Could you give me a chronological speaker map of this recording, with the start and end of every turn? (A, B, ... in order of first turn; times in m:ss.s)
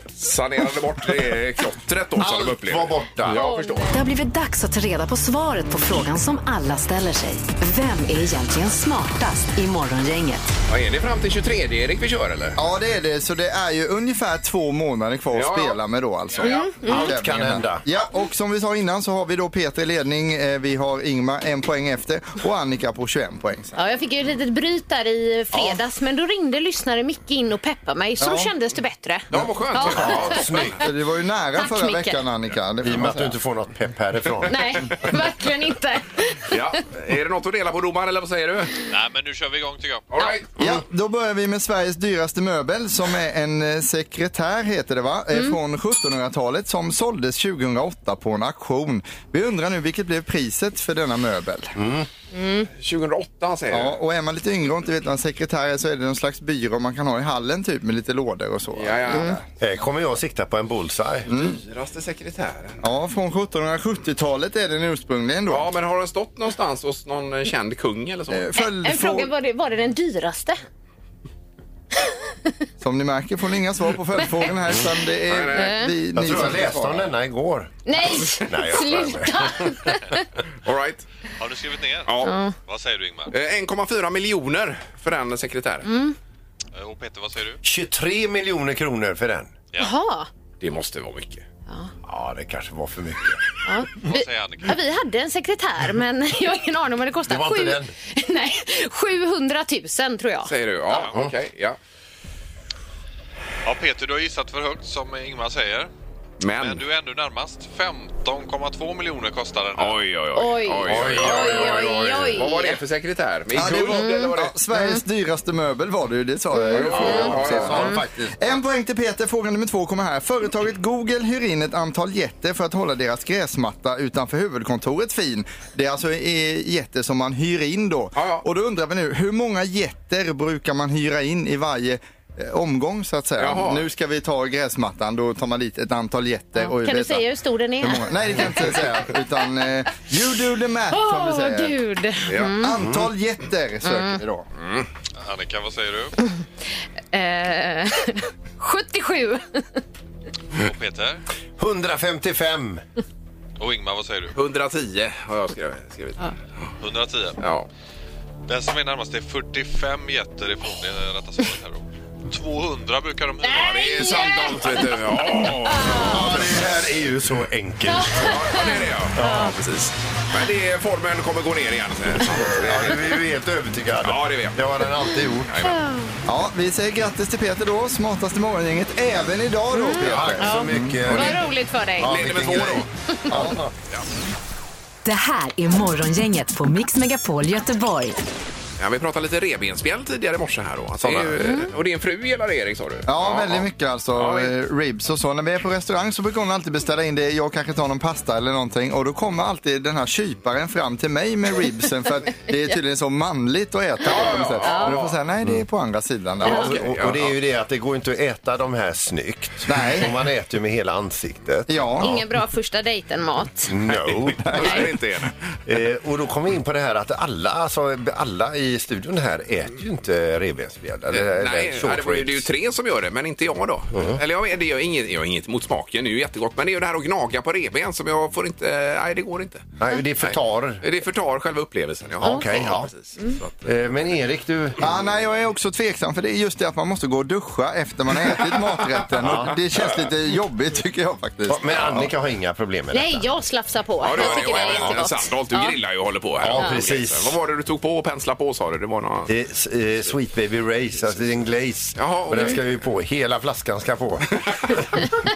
0:00.2-0:03.9 A
0:02.2-0:03.4 B
0:03.3-0:04.0 C
0:03.9-0:10.5 D
0:10.7-0:12.6 A
0:12.6-0:23.8 E
0:15.3-0:15.8 A
0:16.3-0:16.7 A
0:16.4-0:17.1 C
0:16.8-0:17.8 B
0:23.8-0:30.6 C
0:28.2-0:28.5 E
0:29.3-0:30.7 A
0:29.9-0:30.8 B
0:30.8-0:33.4 E
0:31.6-0:32.2 C
0:32.8-0:35.0 B
0:34.5-0:36.7 C
0:36.5-0:38.8 A
0:38.9-0:40.0 F
0:40.1-0:40.5 A
0:40.6-0:51.8 E
0:51.8-0:52.1 B
0:52.3-0:52.7 C
0:52.7-0:54.0 A
0:53.7-0:59.4 E
0:58.7-0:59.4 A
0:59.1-0:59.4 C
0:59.6-1:01.3 B
1:01.3-1:02.8 A
1:01.3-1:01.6 E
1:02.8-1:05.7 E
1:05.5-1:08.5 A
1:08.3-1:09.3 E
1:08.6-1:10.6 C
1:12.8-1:17.1 E
1:15.3-1:15.8 A
1:15.5-1:15.9 C
1:16.1-1:19.8 B
1:17.8-1:20.2 C
1:20.6-1:21.0 A
1:21.4-1:23.3 F
1:22.1-1:22.3 A
1:22.2-1:22.5 C
1:23.3-1:25.9 A
1:25.8-1:26.1 C
1:26.7-1:27.6 F
1:27.6-1:29.5 B
1:29.8-1:30.3 C
1:30.6-1:31.4 A
1:32.0-1:33.4 B
1:33.6-1:40.5 C
1:34.0-1:34.8 F
1:37.3-1:37.9 B
1:40.4-1:41.8 A
1:40.9-1:41.2 F
1:43.6-1:45.9 F
1:46.4-1:46.8 A
1:46.6-1:50.0 F
1:49.8-1:54.5 A
1:50.3-1:52.8 C
1:50.9-1:52.4 B
1:53.5-2:17.3 E
1:53.9-1:55.0 C
1:56.5-1:57.3 C
1:56.7-1:57.9 A
1:56.8-1:58.4 B
2:08.1-2:08.4 A
2:13.4-2:13.8 A
2:16.6-2:18.8 C
2:17.8-2:21.8 E
2:20.9-2:22.7 C
2:22.3-2:22.5 A
2:22.5-2:24.4 E
2:22.8-2:23.1 B
2:23.8-2:24.2 C
2:24.6-2:24.9 A
2:25.2-2:26.1 F
2:27.1-2:29.8 C
2:30.6-2:31.2 F
2:31.6-2:32.8 B
2:33.6-2:34.3 F
2:34.3-2:36.3 A
2:36.8-2:37.4 F
2:37.4-2:37.7 A
2:38.5-2:44.0 F
2:43.4-2:44.8 C
2:43.5-2:46.5 A
2:45.6-2:46.4 C
2:45.8-2:48.6 B
2:47.9-2:49.5 C
2:48.2-2:53.1 A
2:49.2-2:49.6 B
2:52.5-2:55.7 B
2:54.0-2:54.7 A
2:55.5-2:55.8 A
2:55.6-2:56.1 C
2:56.2-3:01.2 E
2:59.7-3:02.2 C
3:00.0-3:01.5 B
3:02.0-3:03.7 B
3:02.0-3:02.9 A
3:03.1-3:03.4 C
3:05.0-3:08.2 D
3:08.8-3:14.5 A
3:11.0-3:11.6 B
3:11.4-3:11.7 C
3:13.0-3:26.8 E
3:24.0-3:25.2 A
3:24.6-3:25.0 C
3:26.4-3:32.2 B
3:26.4-3:27.3 A
3:29.6-3:30.2 E
3:31.7-3:32.1 E
3:32.0-3:33.7 C
3:33.7-3:34.9 B
3:33.9-3:35.4 A
3:34.5-3:34.8 E
3:35.6-3:42.5 B
3:41.1-3:53.6 A
3:43.9-3:44.2 B
3:49.8-3:50.8 B
3:52.2-3:52.9 B
3:53.6-3:54.9 B
3:54.8-4:02.1 E
3:59.2-3:59.6 B
4:01.4-4:03.3 B
4:02.9-4:05.7 C
4:04.0-4:09.3 A
4:04.1-4:05.0 B
4:06.4-4:07.4 B
4:09.3-4:14.8 B
4:12.0-4:12.6 A
4:14.5-4:14.7 A